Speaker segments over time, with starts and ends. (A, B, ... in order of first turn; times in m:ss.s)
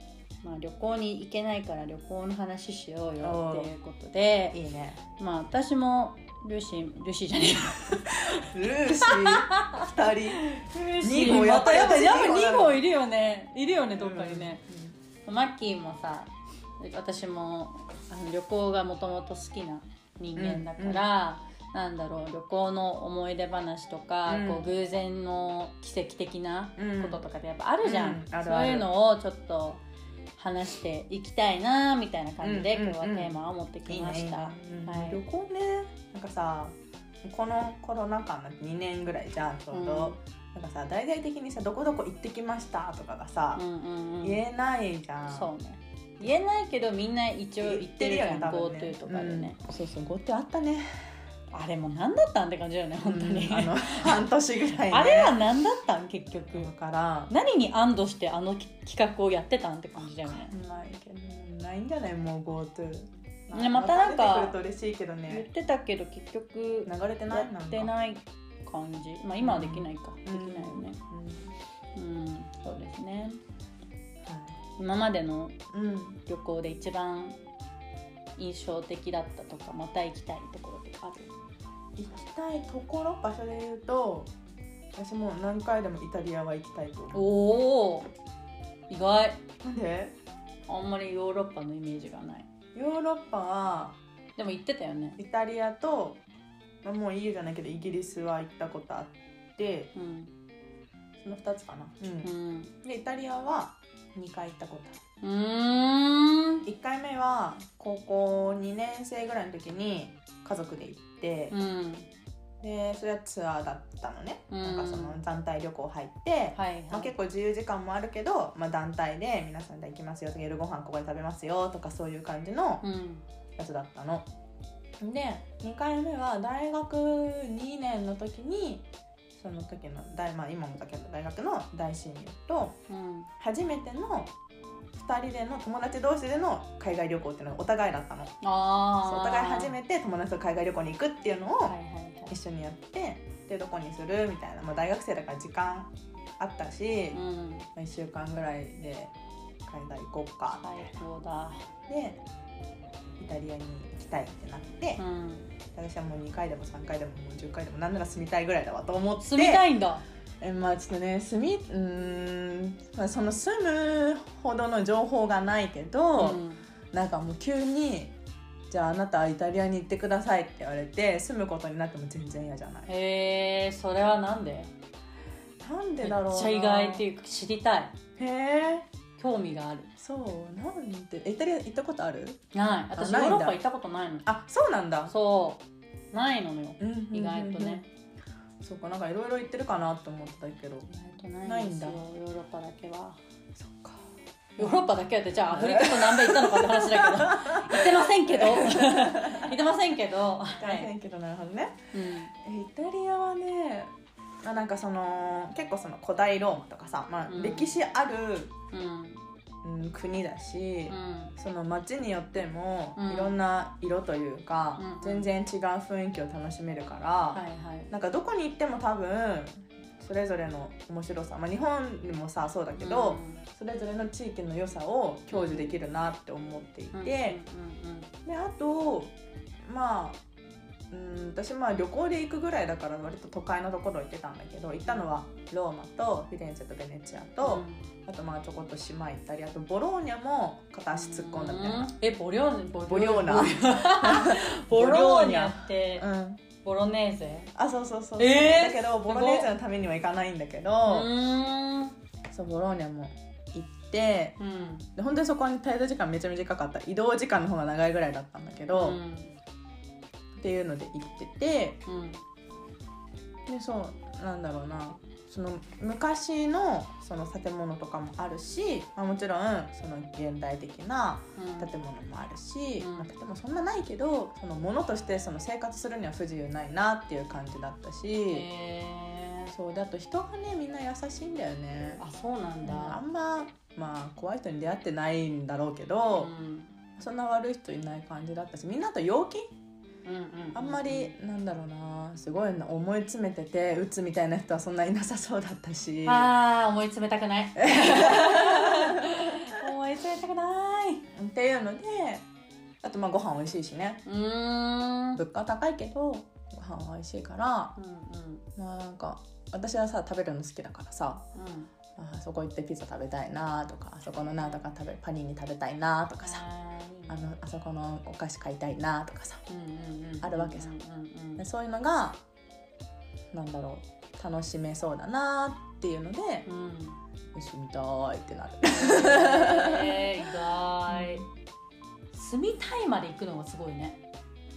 0:00.4-0:04.6 A
0:03.2-0:03.7 B
0:04.5-0:05.0 B
0:05.2-0:14.6 A
0:08.0-0:12.8 B
0:14.0-0:14.9 B
0:15.2-0:29.8 A
0:20.4-0:21.1 B
0:24.3-0:24.7 B
0:26.8-0:27.2 B
0:27.8-0:28.9 B
0:30.4-0:35.2 A
0:32.4-0:43.6 B
0:39.7-0:40.2 A
0:43.6-0:44.4 A
0:44.2-0:45.5 B
0:45.3-0:49.6 A
0:47.6-0:50.9 B
0:51.5-0:54.2 A
0:53.0-0:55.4 B
0:54.9-0:56.7 A
0:56.5-0:57.3 B
0:57.3-1:00.5 A
1:00.2-1:05.5 B
1:03.5-1:04.6 A
1:05.3-1:11.0 A
1:06.9-1:07.9 B
1:09.4-1:11.6 B
1:12.0-1:13.4 A
1:14.2-1:14.6 B
1:14.8-1:15.6 A
1:15.7-1:16.2 B
1:16.3-1:17.4 A
1:18.4-1:21.3 A
1:22.0-1:24.3 B
1:25.0-1:27.3 B
1:27.1-1:28.1 A
1:28.9-1:29.4 A
1:29.6-1:30.2 B
1:30.7-1:32.5 A
1:32.8-1:34.0 B
1:34.4-1:35.2 A
1:35.2-1:36.2 B
1:36.8-1:39.9 B
1:40.0-1:40.3 A
1:41.2-1:42.3 B
1:42.2-1:42.7 A
1:42.8-1:45.0 B
1:45.2-1:46.7 A
1:46.7-1:51.5 B
1:51.5-1:52.1 A
1:52.6-2:02.8 B
1:54.5-1:55.2 A
1:56.6-1:57.1 A
2:02.8-2:03.2 A
2:03.6-2:04.3 B
2:05.0-2:08.8 B
2:09.4-2:12.8 B
2:12.9-2:13.3 A
2:13.4-2:14.3 B
2:15.0-2:18.4 B
2:18.4-2:19.7 A
2:19.0-2:21.8 B
2:21.7-2:22.3 A
2:22.3-2:27.2 B
2:27.1-2:27.7 A
2:27.8-2:29.1 B
2:29.7-2:30.9 B
2:30.5-2:31.7 A
2:31.9-2:32.2 B
2:33.2-2:35.0 B
2:35.0-2:35.5 A
2:35.7-2:39.6 B
2:39.2-2:40.0 A
2:40.4-2:46.4 B
2:46.2-2:46.6 A
2:46.9-2:48.1 B
2:48.7-2:52.9 B
2:52.9-2:54.7 A
2:55.6-2:57.0 B
2:56.0-2:58.0 A
2:58.2-2:58.9 B
2:59.2-2:59.9 A
3:00.0-3:02.4 B
3:02.5-3:04.3 A
3:03.0-3:03.6 B
3:04.2-3:05.1 B
3:05.1-3:07.9 A
3:06.8-3:07.8 B
3:08.6-3:10.9 B
3:10.9-3:13.2 A
3:11.4-3:12.0 B
3:13.6-3:14.0 B
3:14.6-3:14.9 B
3:14.6-3:20.9 A
3:15.5-3:19.6 B
3:20.6-3:23.9 B
3:21.9-3:22.3 A
3:24.4-3:28.5 B
3:27.3-3:27.8 A
3:28.7-3:29.2 A
3:29.6-3:47.4 B
3:30.9-3:31.4 A
3:33.0-3:33.4 A
3:34.8-3:35.3 A
3:37.3-3:37.9 A
3:42.8-3:43.4 A
3:45.3-3:45.7 A
3:46.9-3:48.1 A
3:48.2-3:49.1 B
3:49.6-3:50.2 B
3:50.9-4:01.9 B
3:57.4-3:57.8 A
4:00.9-4:06.0 A
4:02.9-4:06.4 B
4:06.6-4:07.5 A
4:07.6-4:11.1 B
4:08.2-4:09.5 A
4:10.9-4:12.0 A
4:12.3-4:14.4 B
4:14.4-4:14.9 A
4:15.0-4:19.0 B
4:18.7-4:19.3 A
4:20.4-4:21.8 B
4:21.9-4:22.2 A
4:23.5-4:38.5 B
4:31.4-4:31.7 A
4:32.8-4:33.1 A
4:38.3-4:39.6 A
4:39.5-4:42.0 B
4:42.0-4:43.0 A
4:42.6-4:46.3 B
4:46.1-4:46.7 A
4:47.0-4:49.5 B
4:50.0-4:51.1 A
4:50.5-4:56.3 B
4:56.0-5:01.1 A
4:57.6-4:59.4 B
5:01.1-5:02.2 B
5:02.8-5:04.0 B
5:04.0-5:05.2 A
5:05.2-5:07.7 B
5:07.8-5:08.4 A
5:08.6-5:11.2 B
5:11.4-5:11.7 A
5:12.0-5:16.4 B
5:16.2-5:17.3 A
5:17.1-5:19.4 B
5:19.5-5:21.5 A
5:20.2-5:20.7 B
5:21.4-5:22.2 B
5:23.3-5:26.5 B
5:26.5-5:27.0 A
5:27.3-5:30.1 B
5:28.7-5:31.3 A
5:30.9-5:31.3 B
5:32.1-5:34.0 A